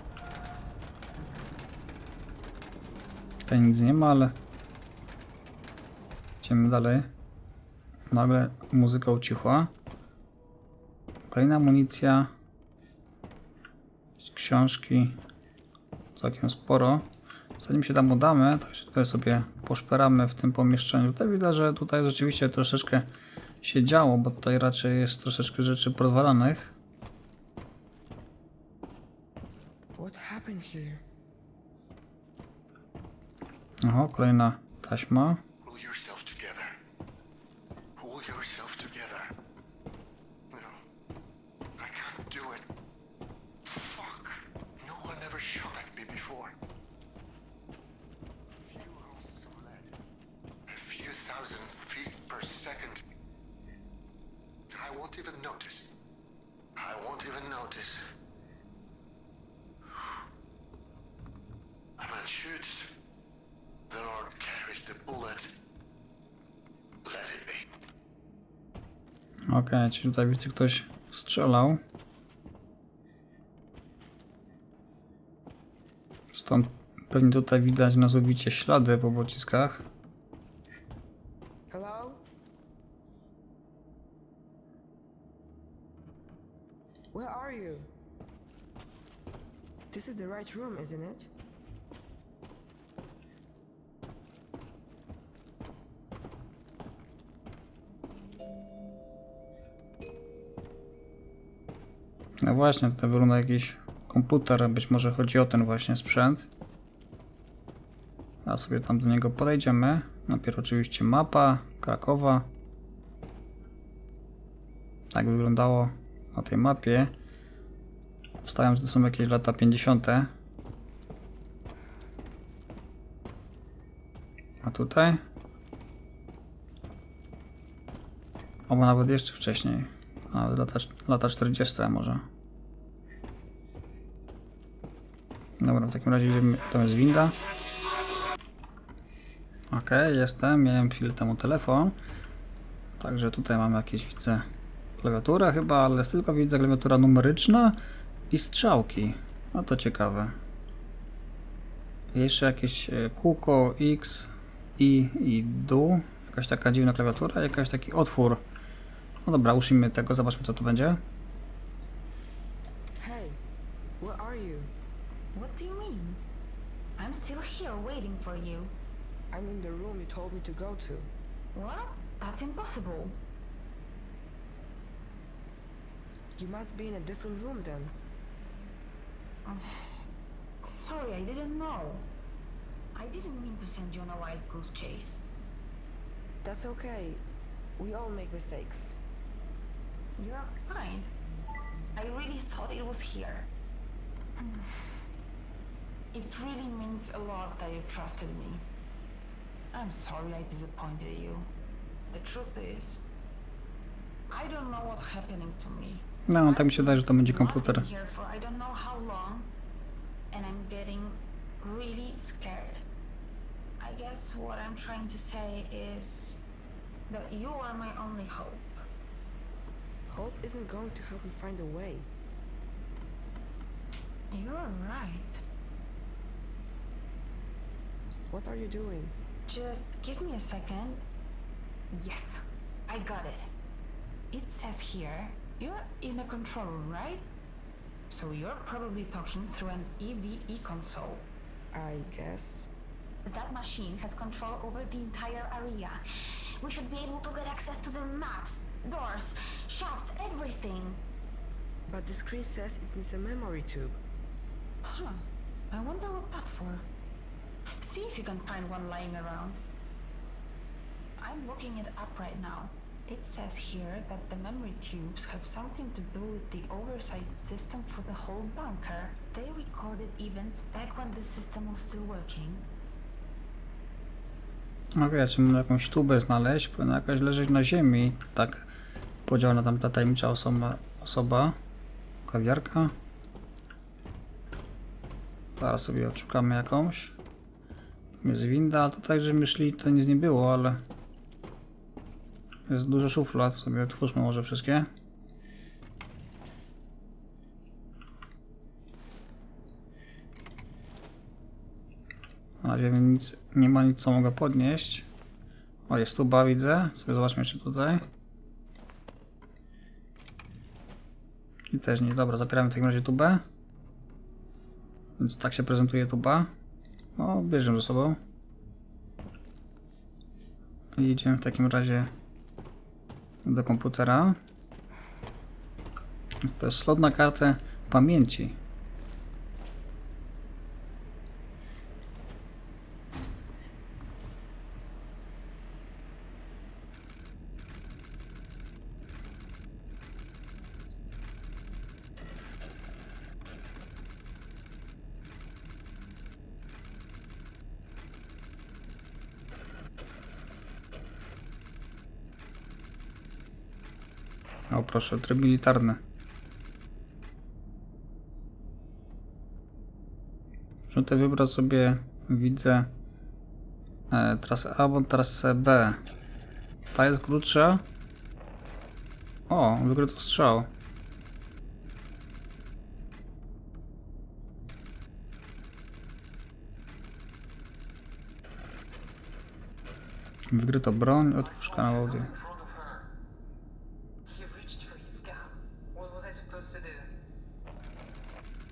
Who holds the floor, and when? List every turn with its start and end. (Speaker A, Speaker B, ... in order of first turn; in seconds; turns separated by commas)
Speaker A: 3.5-4.3, Speaker A: 6.4-7.1, Speaker A: 8.1-9.7, Speaker A: 11.3-12.3, Speaker A: 14.2-15.2, Speaker A: 16.1-17.1, Speaker A: 17.6-23.1, Speaker A: 23.6-26.7, Speaker B: 29.9-31.0, Speaker A: 33.8-35.4, Speaker C: 35.6-36.8, Speaker C: 38.0-39.3, Speaker C: 40.5-40.8, Speaker C: 41.8-42.7, Speaker C: 43.6-46.6, Speaker C: 48.5-50.0, Speaker C: 50.7-53.0, Speaker C: 54.7-55.9, Speaker C: 56.8-58.0, Speaker C: 62.0-63.0, Speaker C: 63.9-65.5, Speaker C: 67.0-67.7, Speaker A: 69.5-71.8, Speaker A: 76.3-79.8, Speaker B: 81.7-82.2, Speaker B: 87.1-87.9, Speaker B: 89.9-91.3, Speaker A: 102.4-106.5, Speaker A: 108.4-112.5, Speaker A: 115.1-117.1, Speaker A: 118.4-120.3, Speaker A: 124.6-125.2, Speaker A: 128.7-132.2, Speaker A: 135.6-137.3, Speaker A: 139.7-141.9, Speaker A: 143.0-144.4, Speaker A: 145.0-150.3, Speaker A: 152.1-158.4, Speaker A: 159.2-161.0, Speaker B: 163.0-163.4, Speaker B: 164.0-164.7, Speaker D: 165.3-166.2, Speaker D: 167.0-168.8, Speaker B: 169.3-171.1, Speaker D: 171.5-173.2, Speaker B: 176.3-177.9, Speaker D: 179.4-179.9, Speaker D: 180.6-182.1, Speaker D: 182.9-185.3, Speaker B: 186.4-187.2, Speaker B: 187.8-188.9, Speaker D: 190.2-191.1, Speaker D: 191.9-193.5, Speaker D: 194.4-194.9, Speaker D: 196.1-198.6, Speaker D: 199.7-201.5, Speaker D: 202.1-203.0, Speaker D: 204.3-209.5, Speaker A: 206.3-207.8, Speaker D: 210.3-212.8, Speaker D: 213.8-216.4, Speaker D: 217.1-218.8, Speaker B: 220.1-222.1, Speaker D: 224.3-225.4, Speaker B: 228.3-229.1, Speaker D: 229.5-231.0, Speaker D: 231.9-233.5, Speaker D: 234.3-237.3, Speaker D: 238.1-241.3, Speaker B: 241.7-242.7, Speaker D: 243.2-246.0, Speaker D: 246.6-251.0, Speaker B: 251.9-254.0, Speaker D: 254.8-256.9, Speaker D: 257.8-259.6, Speaker D: 261.2-272.7, Speaker A: 274.9-278.7, Speaker A: 279.2-281.6, Speaker A: 282.2-282.9, Speaker A: 285.6-287.1, Speaker A: 288.1-290.8, Speaker A: 292.7-294.9, Speaker A: 302.6-305.1, Speaker A: 305.9-308.0, Speaker A: 311.7-313.4, Speaker A: 315.2-316.5, Speaker A: 317.2-318.2, Speaker A: 320.9-322.1, Speaker A: 323.4-324.4, Speaker A: 326.4-328.6, Speaker A: 354.7-356.0, Speaker A: 360.9-362.9, Speaker A: 364.1-366.0, Speaker A: 366.9-367.8, Speaker A: 369.5-370.7, Speaker A: 380.5-382.3, Speaker C: 381.3-383.1, Speaker E: 384.2-387.1